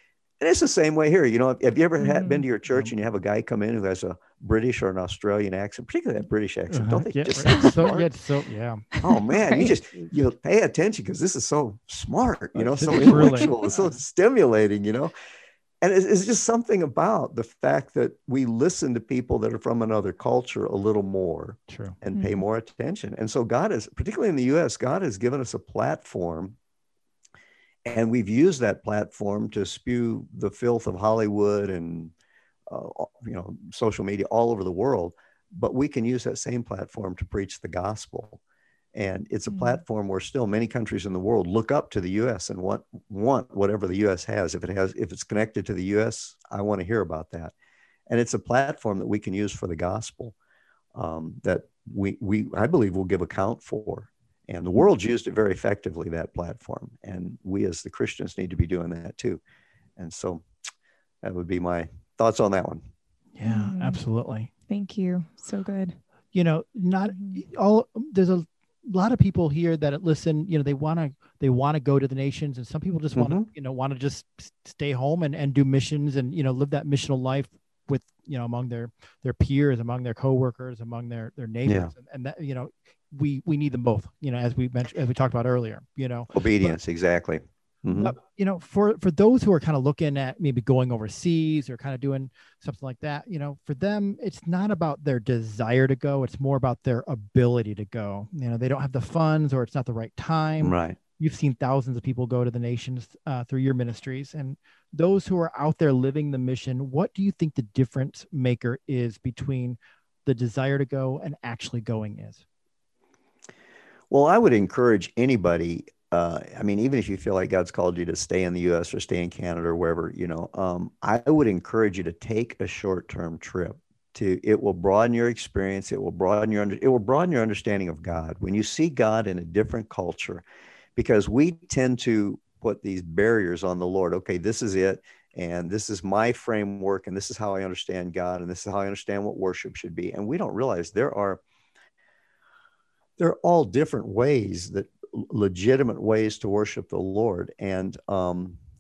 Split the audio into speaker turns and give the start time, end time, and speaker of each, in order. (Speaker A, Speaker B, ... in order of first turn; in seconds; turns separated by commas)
Speaker A: 0.4-8.1, Speaker B: 2.0-2.4, Speaker C: 6.7-8.9, Speaker A: 9.0-15.1, Speaker B: 9.3-9.7, Speaker C: 12.5-13.5, Speaker B: 12.9-13.5, Speaker A: 15.8-26.6, Speaker C: 21.7-21.9, Speaker B: 22.1-22.4, Speaker A: 27.9-32.1, Speaker A: 32.7-38.4, Speaker A: 38.9-47.5, Speaker B: 39.5-39.8, Speaker A: 48.1-50.3, Speaker A: 50.9-59.4, Speaker A: 60.0-60.4, Speaker A: 61.2-62.8, Speaker C: 63.3-64.5, Speaker B: 63.4-64.0, Speaker B: 64.7-66.0, Speaker C: 66.3-86.8, Speaker B: 67.1-67.4, Speaker A: 73.1-73.5, Speaker A: 81.6-81.9, Speaker A: 86.3-88.1, Speaker C: 88.0-112.4, Speaker A: 100.6-101.0, Speaker A: 114.1-130.4, Speaker A: 130.9-141.4, Speaker A: 143.2-148.6